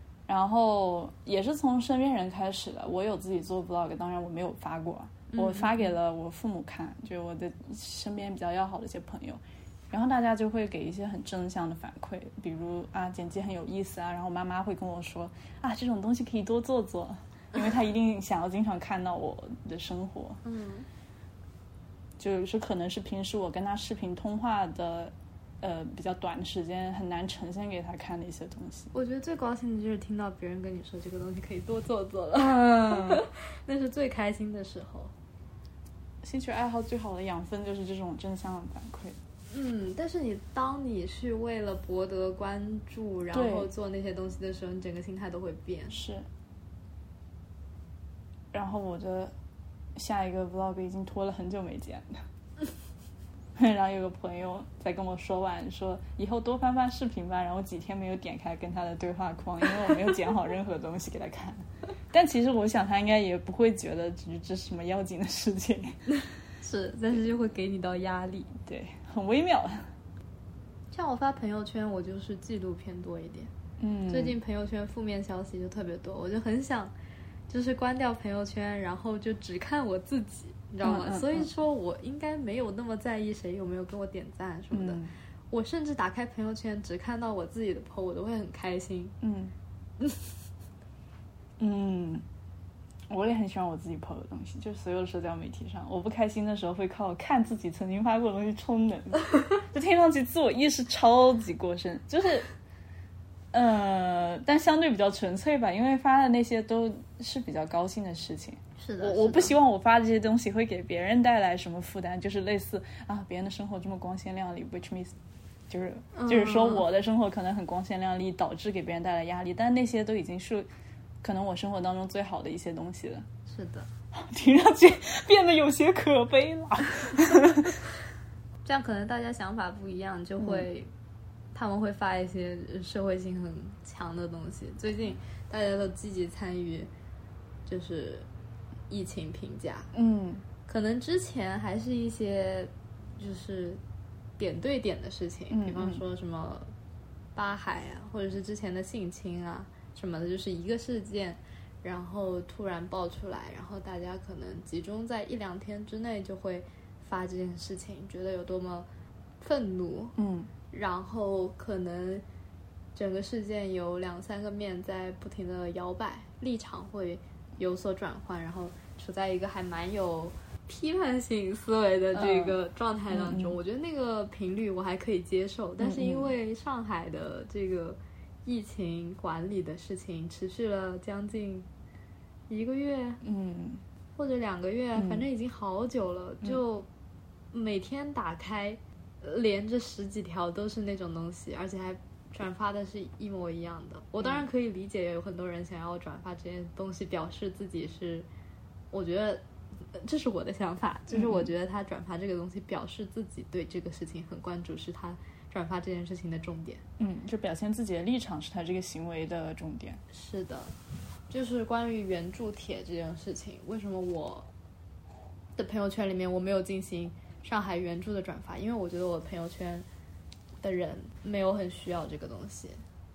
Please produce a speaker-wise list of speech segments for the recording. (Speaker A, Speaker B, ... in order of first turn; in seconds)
Speaker A: 0.3-20.4, 22.2-28.9, 32.6-33.2, 36.2-39.2, 43.3-43.7, 45.9-46.3, 48.5-49.3, 50.0-52.2, 53.5-66.0, 68.7-69.9, 73.8-74.4, 80.8-81.5, 84.7-85.1, 89.2-89.5, 91.6-92.2, 93.1-102.5, 103.5-115.1, 115.7-120.7, 121.2-123.2, 124.1-127.8, 130.4-130.6, 139.9-140.4, 145.5-146.0, 160.2-160.5, 172.1-172.6, 173.1-173.6, 175.8-176.3, 183.2-183.8, 185.0-185.2, 201.1-201.5, 207.0-210.0
Speaker B: 5.3-5.9, 20.4-20.9, 28.9-35.1, 39.5-46.0, 66.6-68.5, 70.9-73.5, 74.1-76.9, 77.5-89.1, 90.0-90.3, 108.8-109.6, 116.1-116.8, 123.5-123.9, 128.6-130.9, 131.5-136.9, 137.7-138.3, 138.9-139.9, 140.7-143.8, 144.4-146.7, 147.3-158.9, 159.4-160.2, 160.7-162.2, 162.9-181.7, 182.5-183.2, 184.1-186.9, 187.5-198.3, 198.9-206.8, 210.1-210.8, 211.3-214.4, 215.6-219.8, 220.6-222.8